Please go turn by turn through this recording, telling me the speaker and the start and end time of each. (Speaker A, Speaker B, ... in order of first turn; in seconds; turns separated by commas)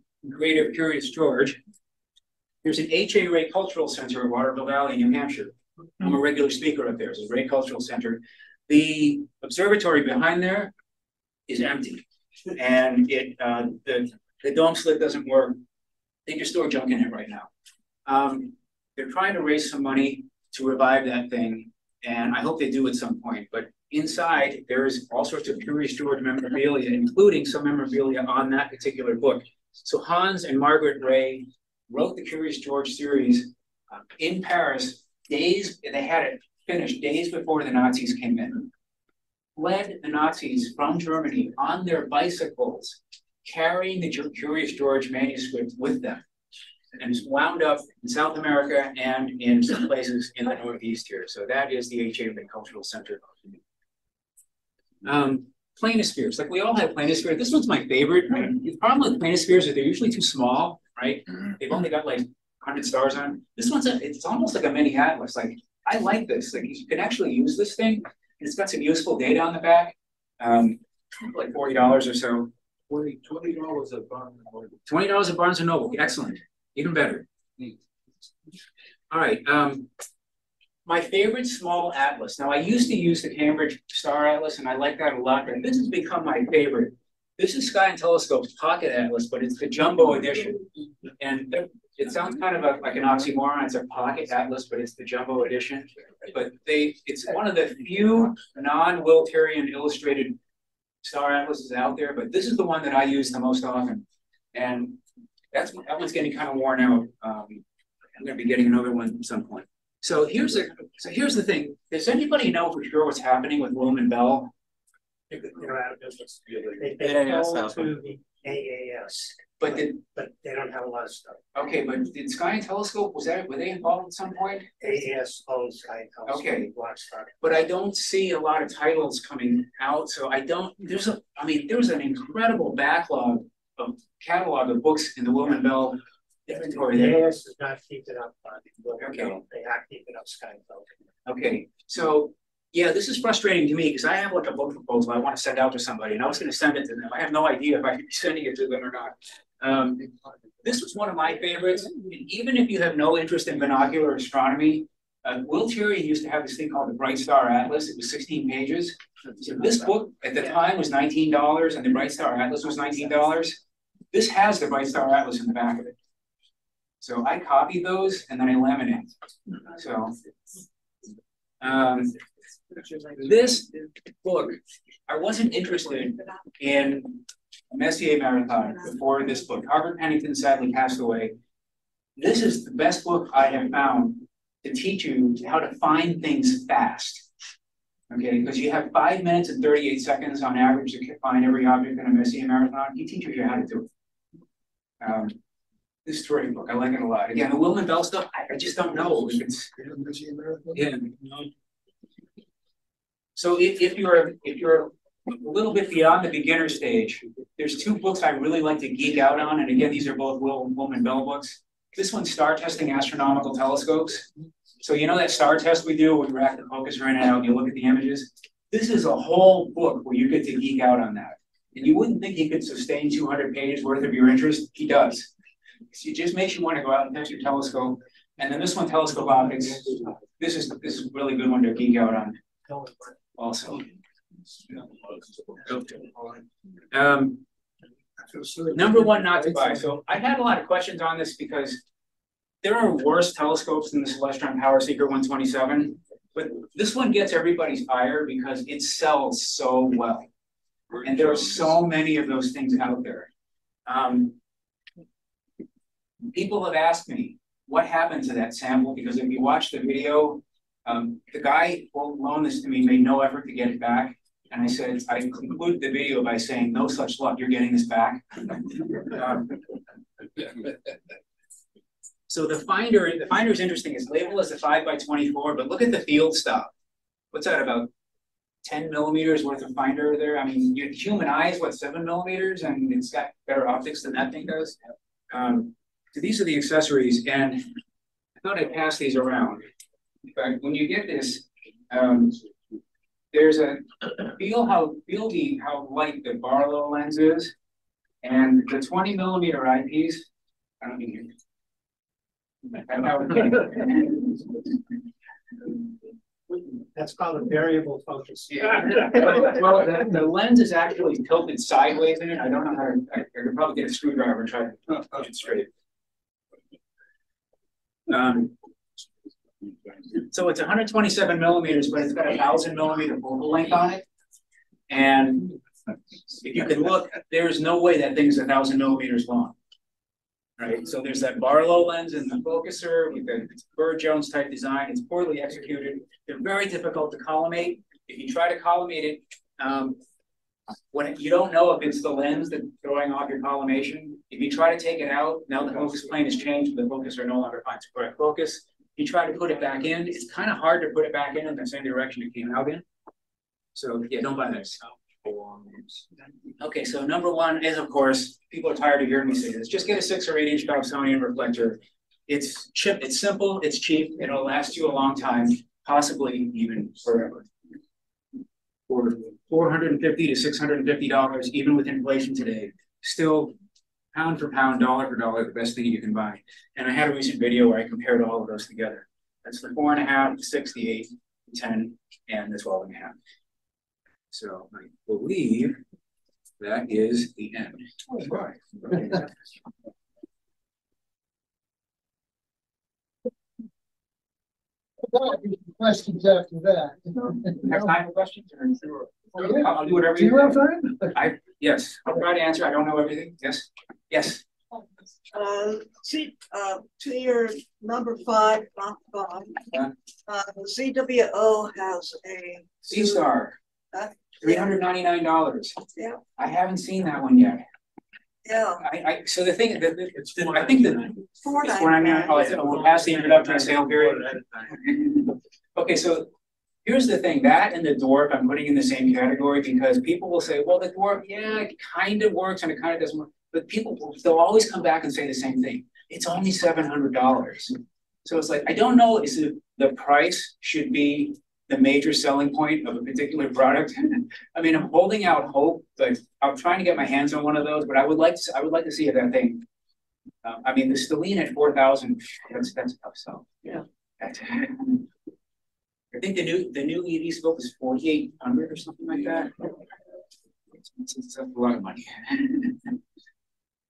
Speaker A: 0.2-1.6, Speaker A: 2.6-10.7, Speaker A: 11.5-15.6, Speaker A: 16.3-17.5, Speaker A: 18.1-38.7, Speaker A: 39.5-46.2, Speaker A: 47.0-53.4, Speaker A: 55.0-72.5, Speaker B: 72.9-74.8, Speaker A: 74.9-77.3, Speaker A: 79.1-79.9, Speaker A: 80.9-90.7, Speaker A: 91.2-100.4, Speaker A: 101.0-105.0, Speaker A: 105.5-107.6, Speaker A: 108.2-114.5, Speaker C: 115.3-121.4, Speaker A: 117.0-117.9, Speaker A: 119.6-120.0, Speaker A: 121.5-124.7, Speaker C: 124.8-127.3, Speaker A: 126.3-126.7, Speaker A: 127.4-137.2, Speaker C: 136.9-140.9, Speaker A: 139.0-139.4, Speaker A: 141.3-150.1, Speaker A: 150.6-163.6, Speaker A: 164.1-165.9, Speaker A: 167.0-169.1, Speaker A: 169.7-170.2, Speaker A: 171.6-172.2, Speaker A: 173.0-181.3, Speaker A: 182.2-187.3, Speaker A: 188.1-193.9, Speaker A: 195.0-195.4, Speaker A: 196.1-199.7, Speaker D: 199.8-200.8, Speaker A: 200.7-201.4, Speaker A: 203.4-214.3, Speaker A: 214.8-225.3, Speaker A: 225.9-232.4, Speaker A: 233.3-233.9, Speaker B: 234.7-236.4, Speaker A: 235.7-236.0, Speaker A: 236.9-237.4, Speaker B: 238.3-238.7, Speaker A: 238.7-241.8, Speaker A: 242.6-250.3, Speaker A: 251.0-253.3, Speaker A: 253.9-254.4, Speaker A: 256.3-269.6, Speaker A: 270.4-270.7, Speaker A: 272.3-276.7, Speaker A: 277.3-277.9, Speaker A: 278.6-284.8, Speaker A: 285.3-287.7, Speaker A: 288.4-289.6, Speaker A: 290.3-292.4, Speaker A: 293.3-297.5, Speaker A: 298.2-300.3, Speaker A: 300.8-301.3, Speaker A: 302.7-304.4, Speaker C: 306.9-309.4, Speaker A: 308.5-315.7, Speaker A: 318.1-318.6, Speaker A: 320.1-324.0, Speaker A: 324.9-325.6, Speaker A: 326.4-329.5, Speaker A: 330.6-340.0, Speaker A: 340.9-352.8, Speaker A: 353.7-354.8, Speaker A: 356.6-367.5, Speaker A: 368.9-373.6, Speaker A: 374.1-383.2, Speaker A: 384.3-385.8, Speaker A: 386.6-387.8, Speaker D: 388.2-388.6, Speaker A: 388.8-389.3, Speaker D: 395.0-397.9, Speaker A: 397.6-404.4, Speaker D: 399.4-401.1, Speaker E: 405.3-409.7, Speaker E: 410.3-413.2, Speaker A: 412.8-413.6, Speaker E: 413.9-414.7, Speaker A: 414.4-415.8, Speaker E: 415.9-416.2, Speaker A: 416.4-417.6, Speaker E: 418.4-418.8, Speaker A: 418.8-426.3, Speaker E: 421.4-422.5, Speaker A: 426.8-449.6, Speaker A: 450.4-455.1, Speaker A: 456.1-459.7, Speaker A: 460.9-462.9